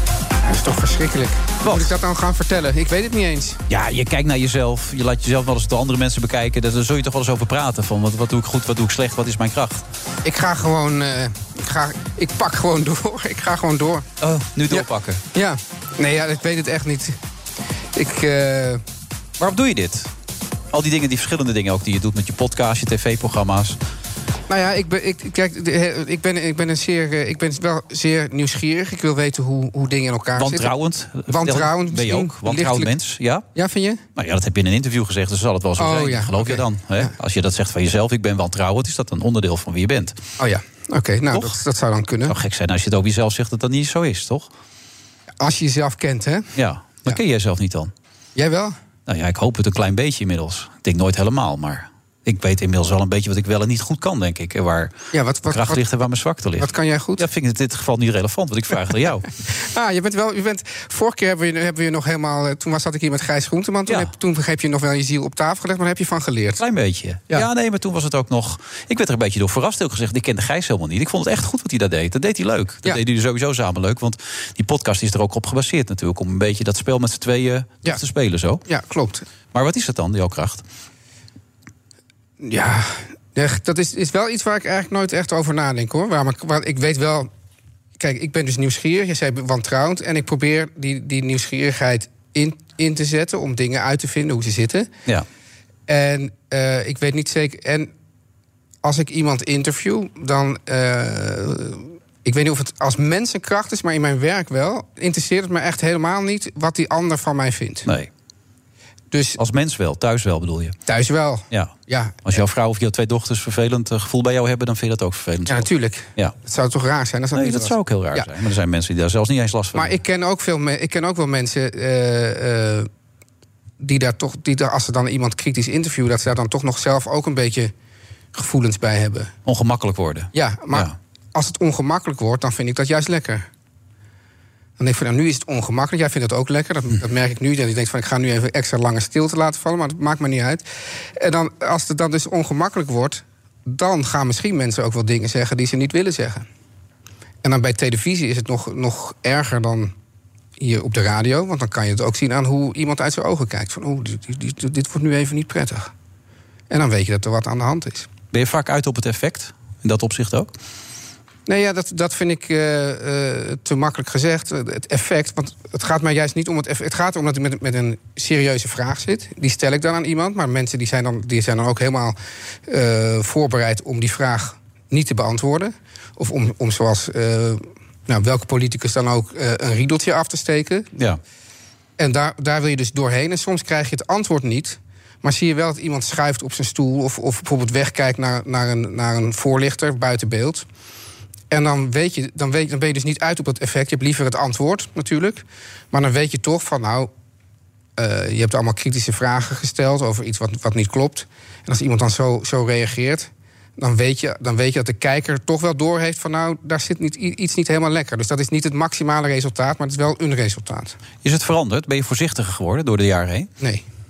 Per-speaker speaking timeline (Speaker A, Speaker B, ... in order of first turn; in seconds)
Speaker A: 0.4-3.6, 10.2-14.1, 14.7-17.2, 17.9-18.8, 24.5-30.7, 31.3-32.9, 33.5-34.0, 35.8-37.1, 40.4-42.4, 45.4-46.5, 48.3-48.8, 55.1-55.8, 56.6-57.2, 59.5-66.6, 78.7-79.2, 82.4-87.3, 88.0-94.9, 95.9-97.9, 98.8-107.9, 109.1-109.4, 110.8-112.3, 115.5-118.3, 119.7-122.9, 123.8-127.7, 128.3-129.3, 130.3-133.5, 134.8-140.7, 141.2-146.5, 147.4-149.9, 150.6-155.9, 156.7-158.1, 161.5-180.9, 182.0-190.7, 191.5-197.1, 198.0-210.9
Speaker B: 1.6-1.9, 3.7-9.8, 14.2-15.2, 19.4-20.1, 20.7-23.8, 30.4-33.4, 34.1-40.2, 42.3-44.5, 46.5-47.9, 49.1-54.9, 55.5-59.3, 66.6-78.6, 79.5-80.6, 109.4-110.8, 112.2-116.3, 117.3-120.0, 129.4-130.9, 158.3-160.5, 211.2-213.5